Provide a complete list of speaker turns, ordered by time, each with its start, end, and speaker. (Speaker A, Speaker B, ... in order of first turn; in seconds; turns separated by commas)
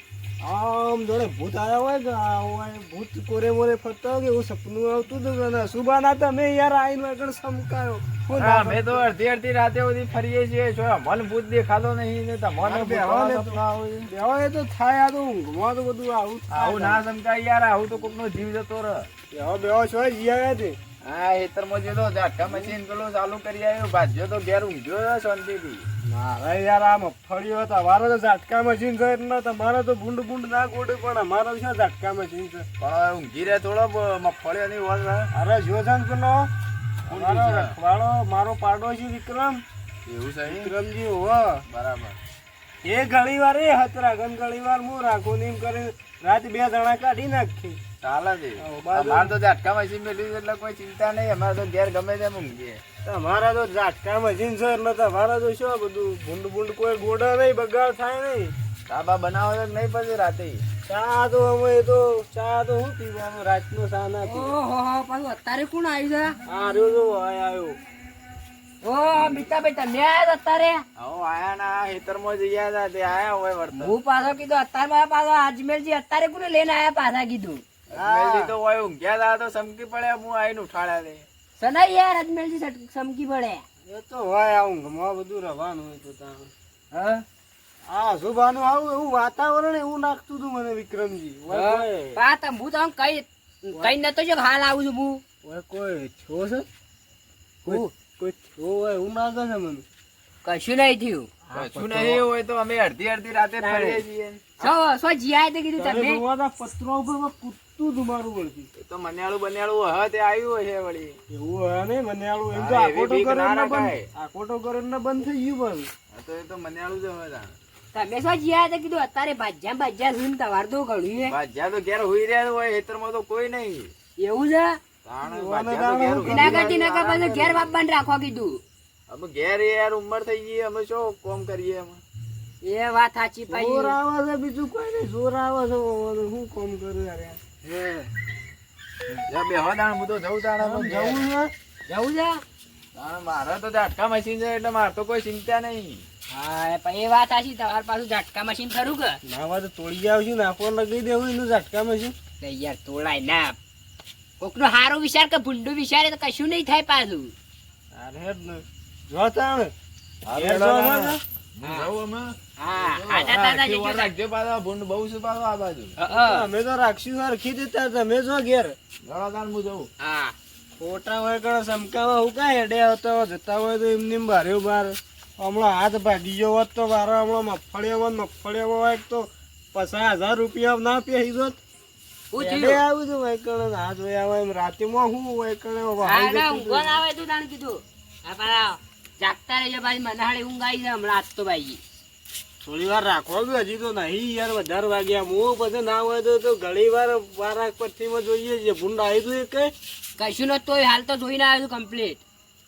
Speaker A: 0.4-9.1, Speaker B: 8.3-14.1, Speaker A: 12.6-17.0, Speaker B: 16.5-19.1, Speaker A: 19.3-20.8, Speaker B: 21.0-25.9, Speaker A: 22.4-22.7, Speaker A: 26.0-32.7, Speaker B: 32.8-35.3, Speaker A: 35.3-36.5, Speaker B: 37.1-37.8, Speaker A: 37.1-39.6, Speaker B: 40.1-40.7, Speaker A: 40.5-41.6, Speaker B: 41.7-42.2, Speaker A: 42.8-47.8, Speaker B: 48.0-52.8, Speaker A: 48.6-49.3, Speaker A: 53.0-58.5, Speaker B: 58.9-60.6, Speaker A: 60.9-64.5, Speaker C: 64.2-66.3, Speaker A: 66.5-67.8, Speaker C: 68.8-70.8, Speaker B: 71.0-73.9, Speaker C: 73.7-77.6, Speaker B: 77.9-81.2, Speaker A: 77.9-78.5, Speaker C: 81.6-83.6, Speaker A: 83.8-86.5, Speaker C: 86.9-87.2, Speaker A: 87.9-92.2, Speaker C: 91.5-95.2, Speaker A: 95.4-96.7, Speaker A: 97.6-99.8, Speaker C: 100.4-101.3, Speaker A: 101.5-102.2, Speaker B: 101.5-104.7, Speaker C: 103.6-104.0, Speaker C: 104.6-106.2, Speaker A: 105.8-108.7, Speaker B: 108.8-111.2, Speaker A: 111.3-115.9, Speaker B: 112.5-114.1, Speaker B: 116.1-117.5, Speaker C: 117.9-121.3, Speaker B: 121.3-123.9, Speaker C: 124.2-124.8, Speaker B: 125.0-127.7, Speaker A: 125.2-126.8, Speaker C: 126.3-128.6, Speaker B: 129.1-132.0, Speaker C: 132.6-133.9, Speaker A: 133.5-138.1, Speaker B: 139.3-141.2, Speaker A: 140.6-141.5, Speaker C: 141.9-142.4, Speaker B: 142.9-146.0, Speaker C: 146.3-149.2, Speaker A: 149.2-152.1, Speaker C: 152.4-153.6, Speaker C: 154.4-157.3, Speaker A: 157.9-159.7, Speaker B: 160.2-165.9, Speaker A: 160.3-161.2, Speaker C: 161.6-161.9, Speaker C: 162.6-164.1, Speaker C: 166.0-166.5, Speaker A: 166.1-168.8, Speaker B: 169.1-169.9, Speaker C: 170.0-170.3, Speaker A: 170.8-181.6, Speaker C: 182.3-182.8, Speaker A: 182.3-187.0, Speaker C: 186.0-191.8, Speaker A: 192.6-199.7, Speaker C: 200.2-202.2